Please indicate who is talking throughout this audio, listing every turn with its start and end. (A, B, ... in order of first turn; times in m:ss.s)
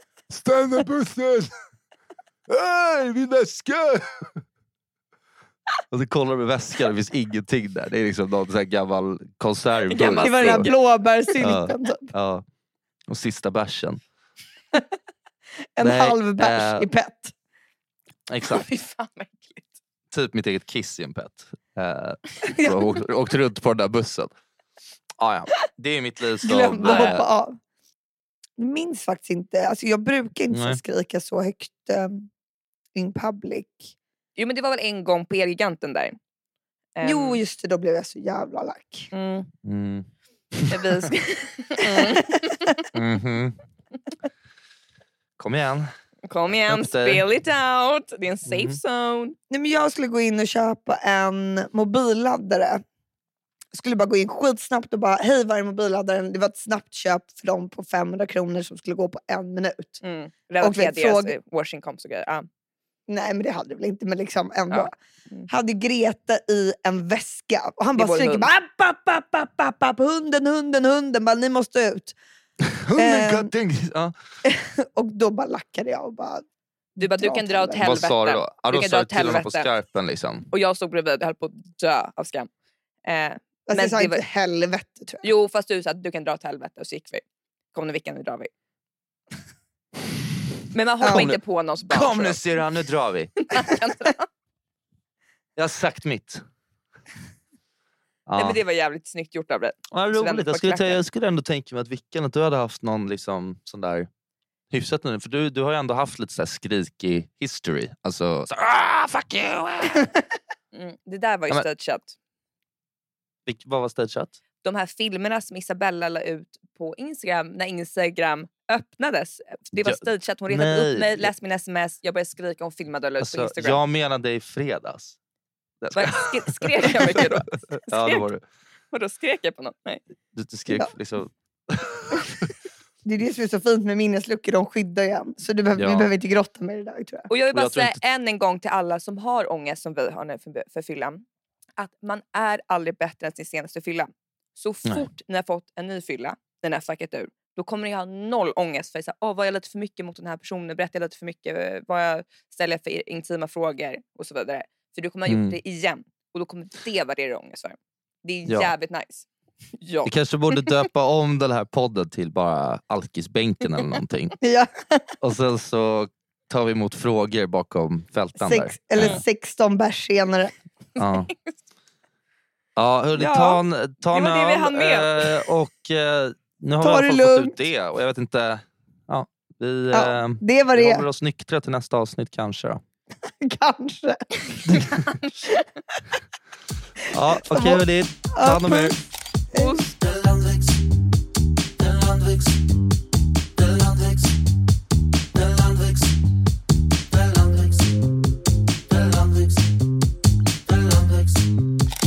0:00.3-0:01.5 A
0:02.5-0:04.4 A
0:05.9-0:10.7 A
0:09.9-0:10.8 B
0:09.9-0:12.1 C
0:11.4-0:12.4 A
0:13.1-0:14.0 A
0:15.8-0:17.3 C
0:15.8-0:16.9 A
0:18.3-0:18.6 A
0:18.5-0:19.7 B
0:20.1-0:24.3 A
0:22.4-0:22.9 C
0:25.2-0:27.2 A
0:26.4-0:27.6 C
0:26.8-0:27.2 B
0:28.6-0:32.3 C
0:30.5-0:30.8 A
0:32.9-0:33.9 C
0:34.4-0:36.2 B
0:37.0-0:37.4 B
0:37.0-0:39.1 C
0:39.1-0:39.5 B
0:39.6-0:41.1 A
0:40.7-0:42.8 B
0:41.8-0:42.7 C
0:42.9-0:43.6 A
0:45.4-0:45.9 A
0:46.3-0:49.3 B
0:46.6-0:47.2 A
0:48.5-0:48.8 A
0:49.5-0:52.8 C
0:53.7-1:00.0 C
1:00.0-1:02.5 B
1:00.6-1:01.3 C
1:03.1-1:05.0 C
1:04.7-1:05.4 B
1:05.5-1:12.2 C
1:08.0-1:08.5 B
1:12.7-1:14.1 A
1:13.0-1:13.5 C
1:14.4-1:16.4 C
1:17.0-1:18.0 C
1:17.0-1:19.7 B
1:17.8-1:20.5 A
1:20.5-1:22.5 B
1:23.0-1:24.2 B
1:23.7-1:25.2 C
1:25.2-1:28.5 B
1:30.7-1:32.4 B
1:31.0-1:33.7 A
1:33.4-1:34.3 B
1:35.6-1:36.4 A
1:38.3-1:38.6 A
1:38.4-1:41.0 B
1:39.9-1:44.1 A
1:44.7-1:50.1 A
1:50.7-1:52.1 B
1:53.4-1:54.4 A
1:54.6-2:03.8 B
1:59.8-2:01.3 A
2:03.2-2:05.2 A
2:05.8-2:08.4 A
2:05.9-2:08.2 B
2:08.9-2:10.0 B
2:10.3-2:12.5 A
2:13.0-2:17.3 C
2:15.8-2:16.1 A
2:17.3-2:21.2 B
2:17.5-2:18.0 A
2:21.8-2:39.2 B
2:35.3-2:35.6 A
2:39.8-2:40.1 B
2:40.0-2:44.4 A
2:44.4-2:45.1 C
2:45.2-2:49.2 A
2:48.4-2:50.5 C
2:51.0-2:51.3 A
2:52.8-3:02.8 A
2:53.2-2:53.6 B
2:54.1-2:55.4 B
2:56.8-2:57.6 C
2:59.9-3:01.0 C
3:03.2-3:04.9 C
3:04.7-3:05.1 A
3:07.1-3:09.0 A
3:07.4-3:09.0 C
3:09.5-3:09.8 C
3:09.5-3:09.9 B
3:10.0-3:10.8 A
3:11.8-3:12.6 A
3:13.6-3:14.3 A
3:15.3-3:16.1 A
3:17.1-3:17.9 A
3:18.9-3:19.6 A
3:20.7-3:21.4 A